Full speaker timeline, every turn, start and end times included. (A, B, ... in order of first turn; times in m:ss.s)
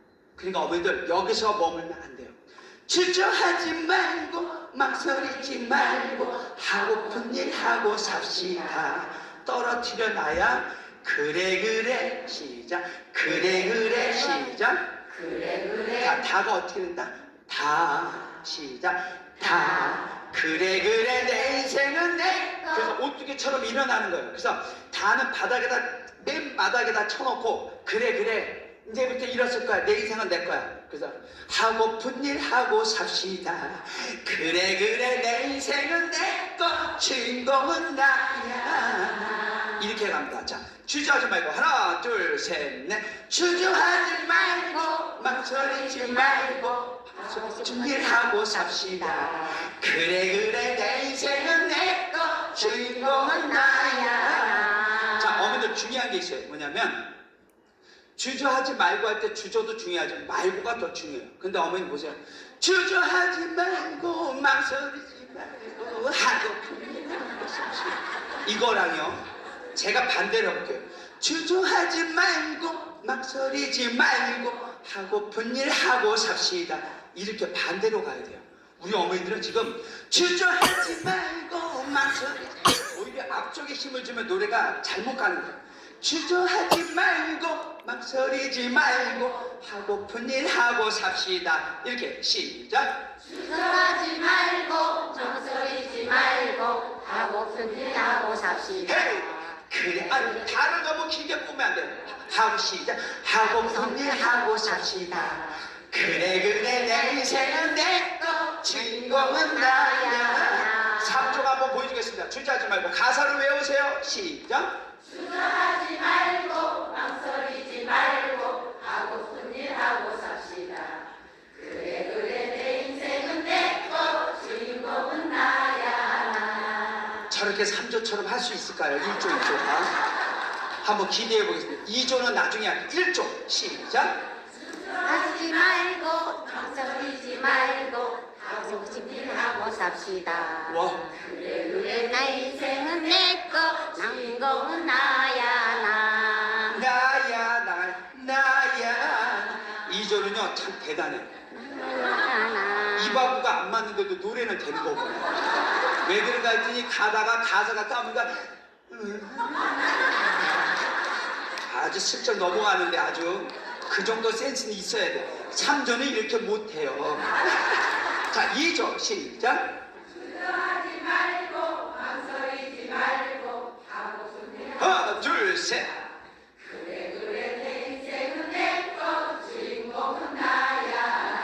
0:00.4-0:14.9 A
0:15.2-0:15.9 B
0:15.9-0:57.1 A
0:53.7-0:55.1 B
0:58.2-1:33.1 A
1:33.3-1:38.9 B
1:38.8-1:54.8 A
1:44.4-1:45.3 B
1:55.2-2:01.0 B
2:01.6-2:07.1 B
2:07.3-2:09.9 A
2:10.8-2:14.2 A
2:15.0-2:26.8 B
2:20.7-2:21.2 A
2:26.7-2:31.3 A
2:31.6-2:33.2 B
2:32.9-2:35.3 A
2:36.0-2:39.7 A
2:41.6-2:47.7 A
2:48.3-2:49.8 A
2:51.7-2:53.8 B
2:54.8-2:56.0 A
2:57.5-3:01.2 B